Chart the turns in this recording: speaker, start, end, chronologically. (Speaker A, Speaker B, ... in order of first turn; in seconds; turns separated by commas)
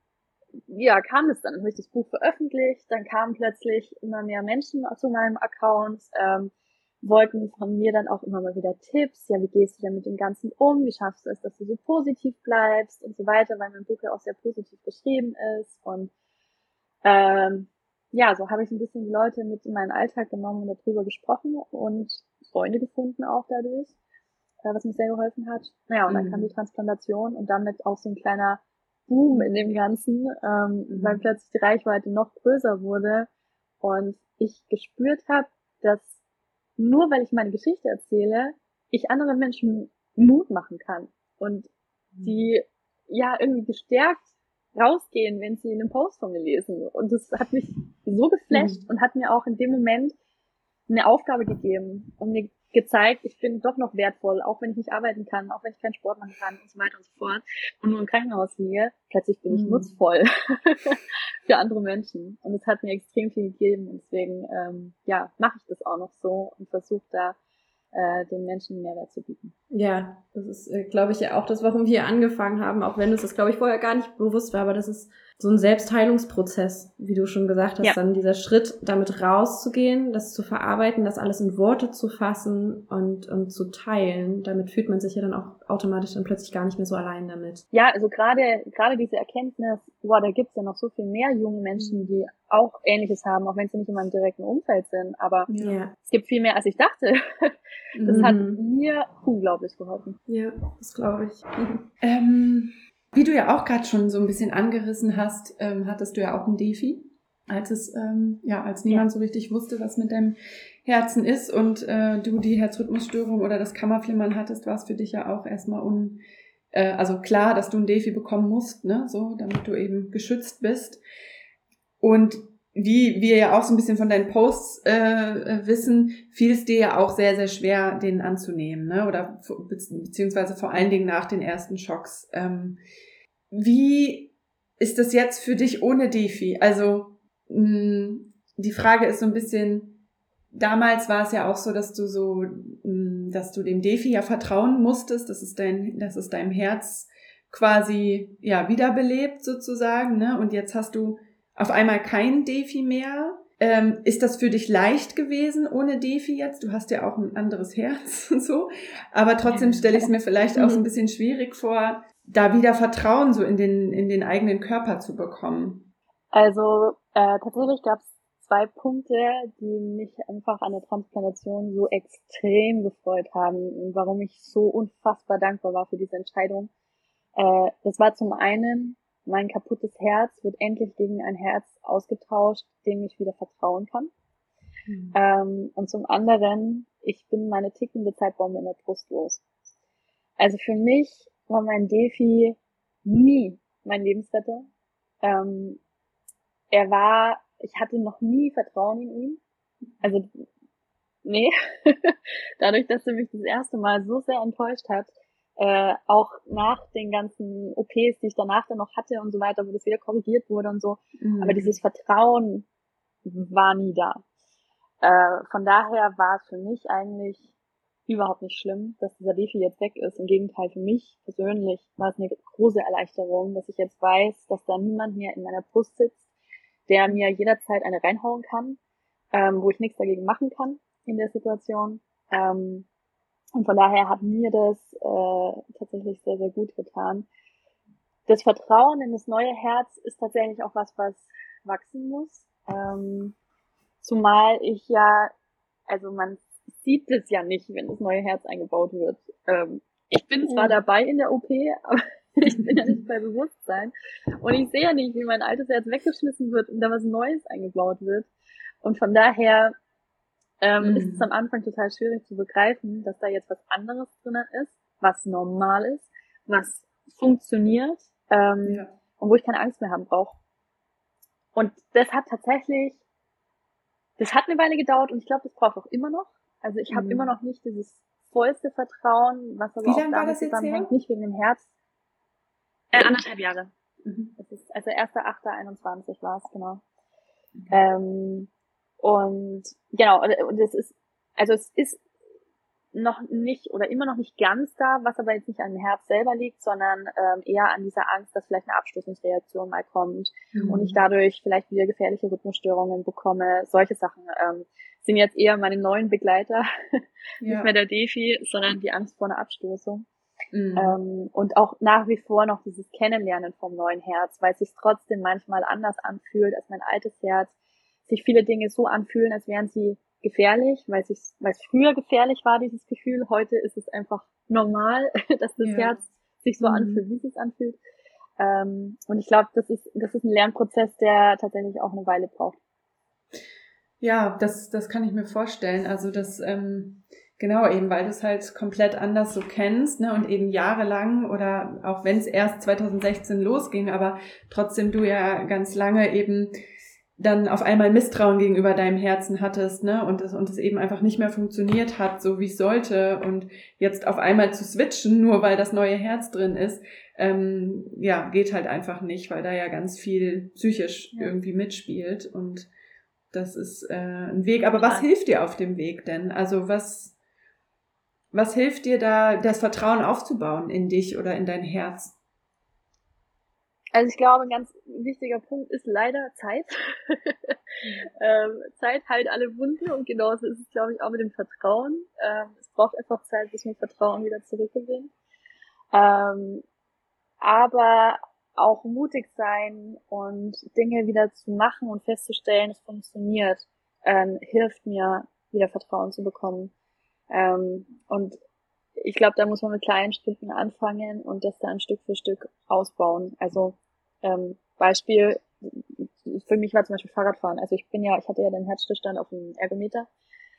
Speaker A: 0.7-16.1, Speaker A: 17.0-23.9, Speaker A: 24.6-33.3, Speaker B: 26.1-26.5, Speaker B: 30.9-31.2, Speaker A: 33.8-36.2, Speaker A: 36.8-41.7, Speaker A: 42.2-50.1, Speaker A: 50.9-67.3, Speaker B: 59.5-59.9, Speaker A: 67.9-69.5, Speaker C: 69.7-87.6, Speaker A: 87.7-95.5, Speaker B: 91.8-92.1, Speaker B: 95.5-95.8, Speaker C: 95.6-95.9, Speaker A: 96.0-97.5, Speaker B: 98.0-98.3, Speaker A: 98.0-100.2, Speaker C: 98.1-98.6, Speaker C: 100.3-101.8, Speaker B: 102.0-116.2, Speaker B: 116.7-121.0, Speaker B: 122.0-132.8, Speaker B: 133.5-140.0, Speaker B: 140.5-165.9, Speaker A: 159.5-160.1, Speaker A: 166.3-176.7, Speaker A: 177.4-184.1, Speaker A: 185.1-189.4, Speaker A: 190.4-194.7, Speaker A: 195.2-195.8, Speaker A: 196.7-199.4, Speaker A: 200.0-200.4, Speaker A: 201.2-212.7, Speaker B: 211.2-211.8, Speaker A: 213.2-214.2, Speaker A: 215.0-217.5, Speaker A: 218.1-226.3, Speaker A: 226.9-228.8, Speaker A: 229.3-232.9, Speaker A: 233.6-237.3, Speaker A: 238.3-243.3, Speaker A: 244.0-245.3, Speaker A: 245.9-258.3, Speaker A: 258.8-259.7, Speaker A: 260.6-270.4, Speaker B: 260.8-261.3, Speaker B: 268.6-268.9, Speaker A: 271.5-273.0, Speaker A: 274.2-281.7, Speaker C: 276.9-277.2, Speaker B: 279.8-280.9, Speaker A: 282.9-283.7, Speaker B: 284.0-284.3, Speaker A: 284.4-286.8, Speaker A: 287.7-288.5, Speaker A: 289.0-292.0, Speaker A: 292.9-310.1, Speaker B: 300.5-301.0, Speaker B: 307.4-307.7, Speaker B: 310.5-311.0, Speaker A: 310.8-317.5, Speaker A: 318.1-327.8, Speaker B: 325.6-326.0, Speaker A: 328.4-332.6, Speaker B: 334.0-346.5, Speaker B: 347.2-362.7, Speaker B: 363.3-367.1, Speaker A: 364.8-365.1, Speaker B: 368.3-372.1, Speaker A: 373.9-377.5, Speaker A: 378.2-385.1, Speaker A: 385.9-386.6, Speaker A: 387.4-396.7, Speaker A: 397.3-398.4, Speaker A: 399.0-410.1